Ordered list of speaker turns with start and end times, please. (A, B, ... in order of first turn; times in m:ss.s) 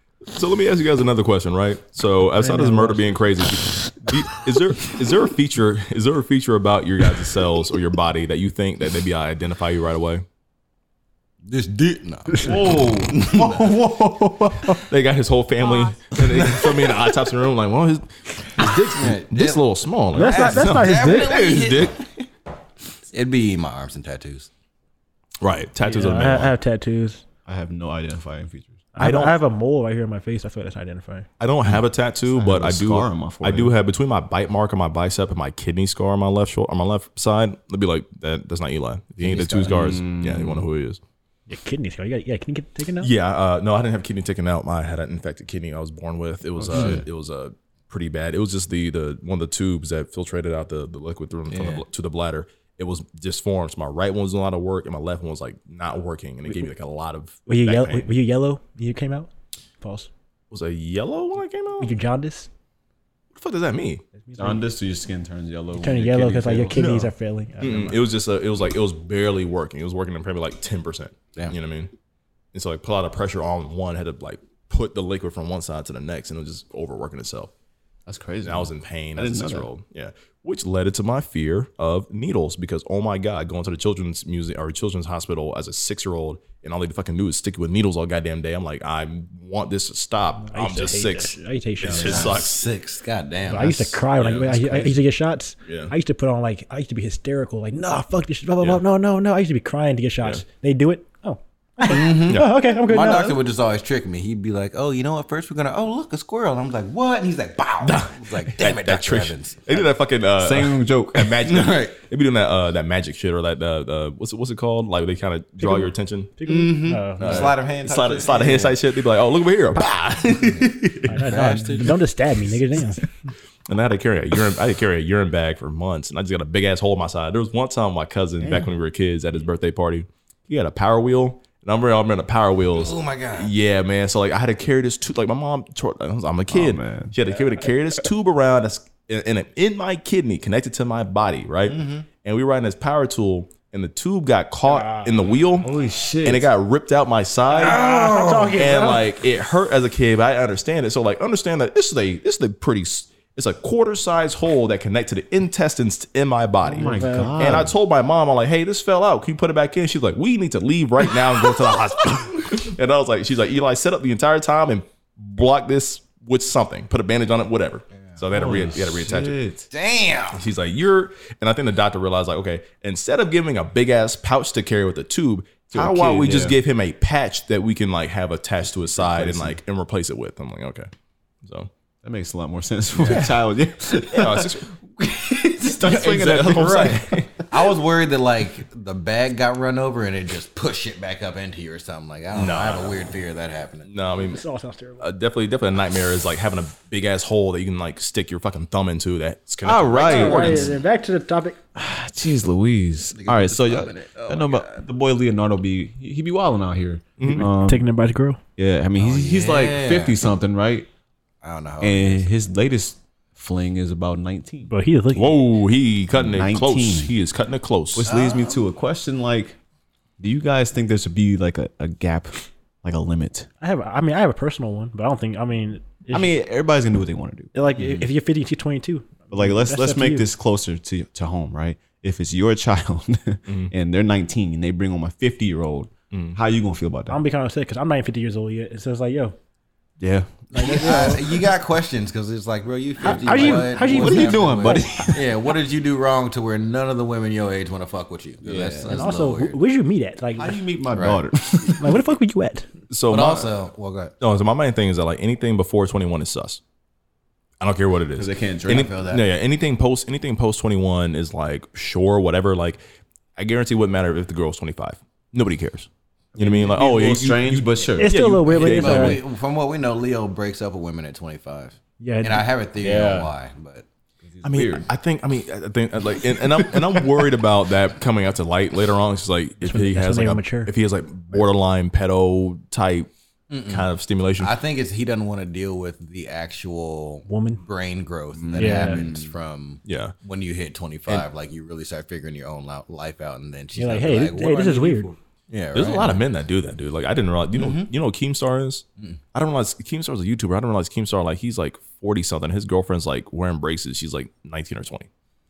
0:00.3-0:10.2 A
0:02.3-0:03.1 B
0:11.4-0:13.8 C
0:12.4-0:14.8 D
0:14.9-0:22.0 A
0:16.2-0:16.9 C
0:18.6-0:22.0 C
0:20.1-0:21.4 B
0:23.1-0:24.5 C
0:25.4-0:26.5 A
0:25.8-0:27.2 B
0:27.4-0:28.9 D
0:28.9-0:31.3 B
0:29.0-0:29.3 A
0:31.4-0:41.0 A
0:31.7-0:33.8 D
0:39.2-0:39.7 B
0:39.4-0:40.7 D
0:41.5-0:43.1 B
0:43.0-0:58.1 A
0:46.6-0:47.0 D
0:46.7-0:47.0 C
0:51.5-0:51.8 C
0:57.5-0:59.3 B
0:59.8-1:00.1 B
1:00.5-1:01.9 A
1:01.8-1:02.5 B
1:03.3-1:04.0 A
1:04.2-1:04.6 B
1:04.4-1:06.8 D
1:05.8-1:08.0 B
1:06.7-1:11.9 A
1:12.5-1:17.5 A
1:18.0-1:19.7 D
1:18.4-1:32.6 A
1:30.5-1:32.4 B
1:31.9-1:34.0 C
1:33.5-1:43.4 B
1:34.2-1:35.0 A
1:35.6-1:35.9 A
1:41.9-1:49.8 C
1:42.1-1:42.5 A
1:47.8-1:56.3 A
1:50.4-1:51.5 D
1:51.5-1:52.0 C
1:55.6-1:57.5 B
1:56.4-1:58.8 C
1:57.2-2:01.1 A
2:01.1-2:03.0 B
2:01.2-2:02.0 C
2:03.7-2:25.7 A
2:08.4-2:08.7 D
2:12.8-2:13.5 C
2:16.5-2:17.2 D
2:21.7-2:22.0 C
2:24.7-2:25.1 B
2:25.6-2:26.5 D
2:26.2-2:27.8 A
2:27.5-2:29.1 B
2:27.6-2:28.8 C
2:28.5-2:49.4 A
2:36.6-2:37.8 D
2:36.8-2:37.5 B
2:48.3-2:49.7 D
2:49.7-2:50.4 C
2:50.3-3:00.9 A
2:55.7-2:56.6 D
2:58.9-2:59.6 D
3:01.4-3:01.7 A
3:02.0-3:07.4 D
3:03.0-3:03.3 A
3:04.1-3:04.7 A
3:05.8-3:07.3 A
3:06.5-3:06.9 C
3:07.5-3:13.9 C
3:12.3-3:13.0 A
3:13.9-3:14.4 A
3:14.2-3:15.0 B
3:15.0-3:20.7 A
3:19.6-3:20.6 D
3:20.0-3:21.6 B
3:21.7-3:27.8 D
3:23.1-3:24.8 C
3:27.2-3:27.5 A
3:27.4-3:28.4 B
3:28.6-3:30.9 D
3:29.0-3:30.2 C
3:31.4-3:32.3 C
3:31.8-3:34.7 D
3:34.7-3:35.4 B
3:35.1-3:38.1 A
3:36.1-3:37.1 D
3:37.9-3:39.6 D
3:38.0-3:38.6 C
3:40.2-3:43.5 D
3:43.6-3:46.3 B
3:46.1-3:47.5 D
3:47.5-3:50.3 B
3:49.3-3:57.2 D
3:53.4-3:53.7 A
3:56.1-3:56.4 A
3:57.1-3:59.4 B
4:00.0-4:01.4 D
4:00.5-4:01.3 B
4:00.5-4:09.6 C
4:03.0-4:05.3 D
4:03.0-4:05.1 B
4:08.4-4:09.0 D
4:08.9-4:10.6 B
4:10.4-4:12.0 D
4:10.9-4:11.2 C
4:11.8-4:12.7 B
4:12.9-4:13.5 A
4:13.1-4:14.1 C
4:14.2-4:16.6 A
4:17.6-4:22.8 A
4:18.2-4:19.2 D
4:23.4-4:29.2 A
4:26.4-4:28.1 D
4:28.0-4:29.2 B
4:28.7-4:33.8 C
4:32.0-4:32.5 B
4:32.8-4:33.3 D
4:34.2-4:34.9 D
4:34.4-4:43.1 A
4:36.7-4:37.0 D
4:39.6-4:40.7 B
4:43.5-4:56.2 C
4:43.7-4:44.5 A
4:47.3-4:47.6 B
4:48.4-4:49.3 D
4:48.6-4:49.0 B
4:49.8-4:50.1 A
4:53.7-4:55.1 B
4:55.7-5:05.1 A
4:57.5-4:57.9 C